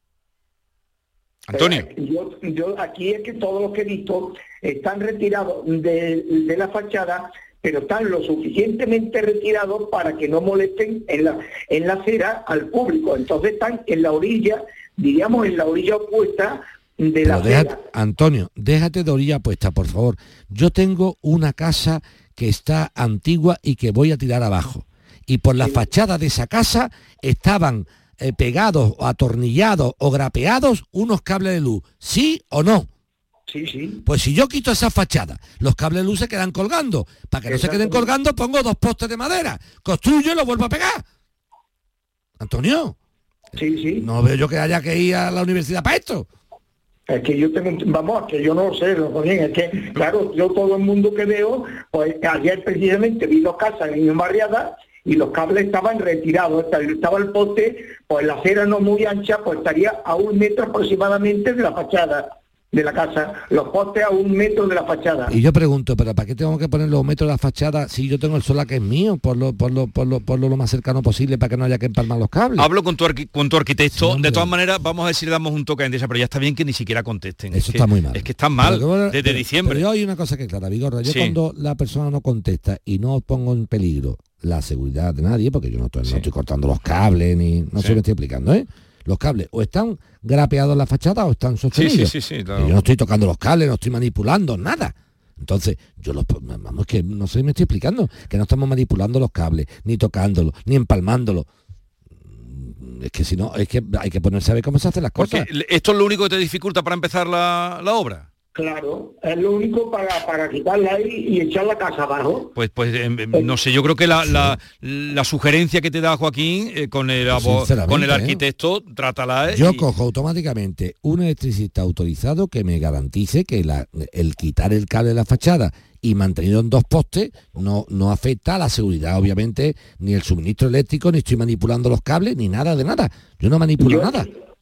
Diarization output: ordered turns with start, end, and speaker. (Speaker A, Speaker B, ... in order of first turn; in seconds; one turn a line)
Speaker A: 1.5-1.9
Speaker B: 1.5-17.8
Speaker C: 17.2-32.9
Speaker B: 25.6-25.8
Speaker B: 33.5-34.0
Speaker C: 34.0-41.0
Speaker B: 37.5-38.1
Speaker C: 42.4-43.0
Speaker B: 43.5-44.0
Speaker C: 44.0-46.3
Speaker B: 47.1-65.3
Speaker C: 65.3-72.7
Speaker A: 72.6-79.8
Speaker C: 74.0-74.5
Speaker C: 77.5-101.5
Speaker A: 81.0-81.3
Speaker A: 91.7-92.8
Speaker C: 102.2-105.5
Speaker A: 105.2-108.2
Speaker B: 108.5-112.5
Speaker A: 112.6-119.8
Speaker C: 114.2-114.6
Speaker C: 117.3-118.4
Speaker C: 119.5-134.3
Speaker B: 133.8-134.3